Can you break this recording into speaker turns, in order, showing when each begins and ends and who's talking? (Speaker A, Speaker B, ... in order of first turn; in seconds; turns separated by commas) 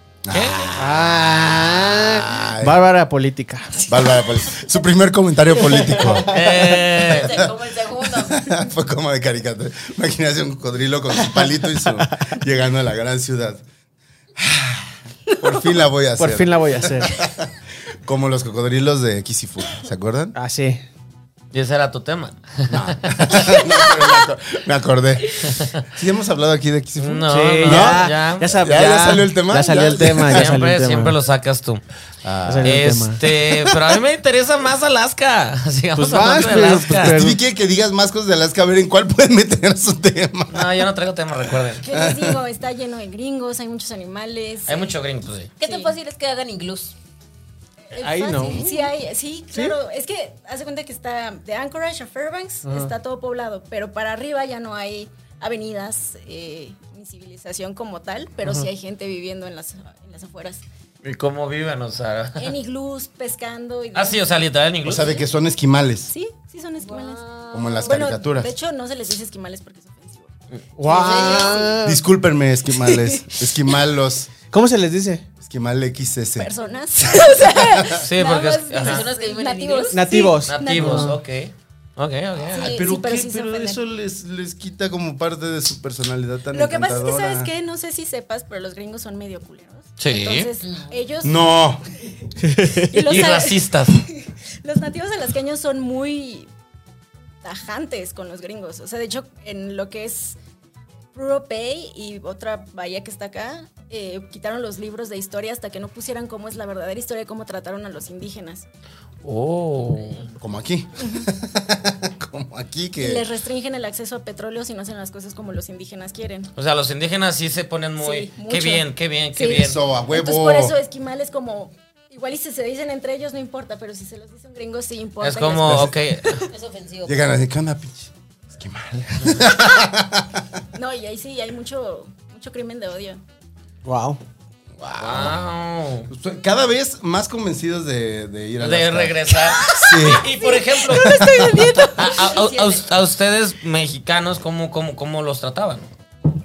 Speaker A: 0.2-2.8, Speaker B: 0.3-0.8, Speaker C: 0.8-3.9, Speaker A: 3.9-6.4, Speaker C: 5.8-6.2, Speaker B: 6.1-7.4, Speaker D: 6.9-8.5, Speaker A: 7.1-13.6, Speaker A: 14.4-20.4, Speaker C: 16.2-17.1, Speaker C: 20.4-20.8, Speaker B: 21.5-23.6, Speaker A: 22.7-30.6, Speaker B: 25.4-25.9, Speaker B: 27.0-28.6, Speaker C: 27.3-31.2, Speaker B: 30.3-31.8, Speaker A: 32.2-32.8, Speaker C: 32.5-33.2, Speaker B: 32.6-37.2, Speaker C: 36.0-37.4, Speaker A: 37.0-40.9, Speaker B: 40.5-41.9, Speaker A: 41.5-42.4, Speaker E: 41.8-44.9, Speaker B: 44.7-45.5, Speaker D: 45.6-46.9, Speaker E: 45.6-45.9, Speaker E: 47.9-60.6, Speaker C: 48.0-48.9, Speaker C: 52.6-52.9, Speaker B: 61.0-62.5, Speaker E: 62.4-64.2, Speaker B: 63.9-65.2, Speaker A: 64.8-66.1, Speaker E: 65.0-65.2, Speaker E: 66.1-67.2, Speaker D: 66.8-68.0, Speaker A: 67.5-68.5, Speaker E: 67.8-70.3, Speaker C: 70.8-72.0, Speaker D: 70.8-71.7, Speaker E: 70.9-71.7, Speaker A: 71.8-74.3, Speaker E: 72.9-73.4, Speaker C: 74.5-75.3, Speaker A: 75.4-78.0, Speaker E: 76.4-81.2, Speaker B: 78.0-79.1, Speaker D: 78.8-80.0, Speaker C: 79.9-81.2, Speaker B: 80.4-82.8, Speaker E: 82.5-83.8, Speaker A: 82.5-87.5, Speaker E: 86.5-91.5, Speaker B: 90.0-90.5, Speaker D: 90.6-91.0, Speaker A: 91.2-91.9, Speaker C: 92.5-92.8, Speaker E: 92.8-96.5, Speaker B: 93.0-94.0, Speaker E: 97.4-100.4, Speaker E: 101.1-108.7, Speaker B: 109.2-110.3, Speaker A: 110.4-113.3, Speaker E: 111.0-111.3, Speaker E: 113.0-116.5, Speaker B: 116.6-119.8, Speaker E: 118.0-126.5, Speaker A: 119.5-120.8, Speaker B: 125.2-126.5, Speaker A: 125.7-125.9, Speaker D: 126.5-127.2, Speaker A: 127.0-130.6, Speaker E: 130.7-133.2, Speaker C: 133.8-134.2, Speaker A: 134.8-135.4, Speaker B: 135.0-136.1, Speaker A: 136.1-140.3, Speaker B: 138.6-145.9, Speaker E: 139.4-142.3, Speaker A: 140.9-141.7, Speaker D: 142.0-142.9